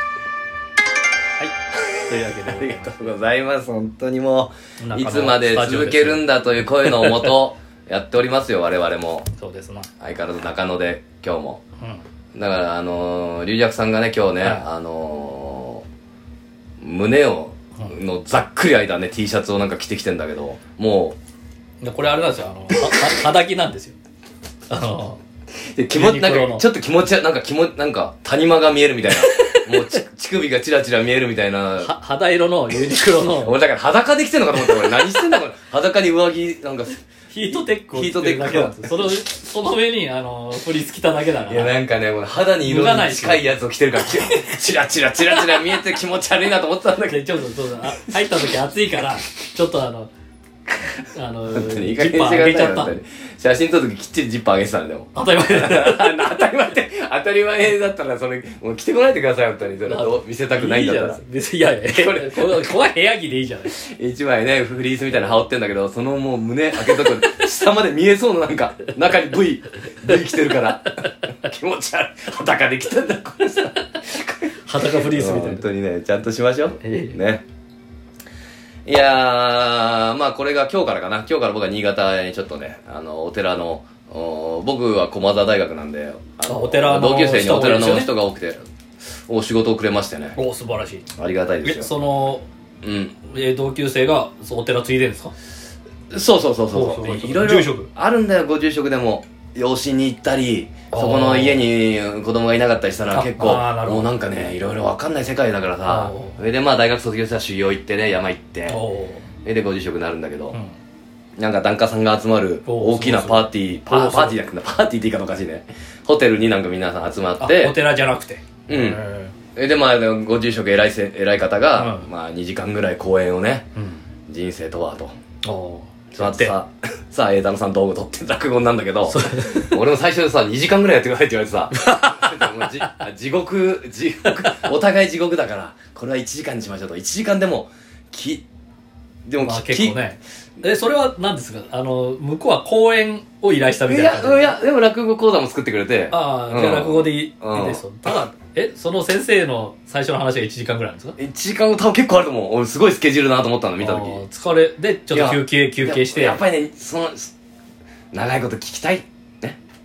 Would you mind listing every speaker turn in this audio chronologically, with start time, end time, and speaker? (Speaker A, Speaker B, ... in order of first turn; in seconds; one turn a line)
Speaker A: 1.8-9.3
Speaker B: 2.1-3.1
Speaker B: 4.8-6.3
Speaker B: 6.8-7.3
Speaker B: 9.4-9.9
Speaker A: 10.0-11.6
Speaker A: 12.3-15.8
Speaker A: 16.8-21.2
Speaker B: 21.8-23.9
Speaker B: 24.7-25.2
Speaker A: 25.7-31.9
Speaker B: 25.9-26.6
Speaker B: 29.2-30.0
Speaker B: 31.8-33.5
Speaker A: 33.1-37.0
Speaker B: 34.6-35.0
Speaker B: 37.3-41.7
Speaker A: 37.5-39.2
Speaker A: 41.5-47.3
Speaker B: 42.6-43.6
Speaker B: 47.0-50.1
Speaker A: 48.0-48.2
Speaker B: 50.9-53.0
Speaker A: 51.5-61.2
Speaker B: 55.1-56.3
Speaker B: 59.8-63.7
Speaker A: 61.9-62.7
Speaker A: 63.6-77.4
Speaker B: 74.7-75.6
Speaker B: 76.8-77.2
Speaker A: 78.8-90.4
Speaker B: 86.5-88.1
Speaker B: 90.3-91.1
Speaker A: 91.2-91.9
Speaker B: 91.6-92.4
Speaker A: 92.8-93.2
Speaker B: 93.3-95.3
Speaker A: 96.1-108.8
Speaker B: 96.7-97.9
Speaker B: 100.9-101.7
Speaker B: 103.1-104.1
Speaker B: 105.9-106.4
Speaker B: 108.7-109.2
Speaker A: 109.4-110.6
Speaker A: 111.4-117.8
Speaker B: 112.7-114.4
Speaker B: 117.4-119.3
Speaker A: 118.7-119.0
Speaker A: 119.5-123.7
Speaker B: 121.8-122.1
Speaker B: 123.8-124.0
Speaker A: 124.3-125.1
Speaker B: 125.4-126.5
Speaker A: 126.1-138.4
Speaker B: 129.1-129.8
Speaker B: 131.7-133.0
Speaker A: 139.2-140.0
Speaker B: 139.4-144.5
Speaker A: 143.9-148.1
Speaker B: 146.1-151.2
Speaker A: 151.2-154.2
Speaker B: 153.8-156.4
Speaker A: 155.1-157.3
Speaker A: 158.1-159.6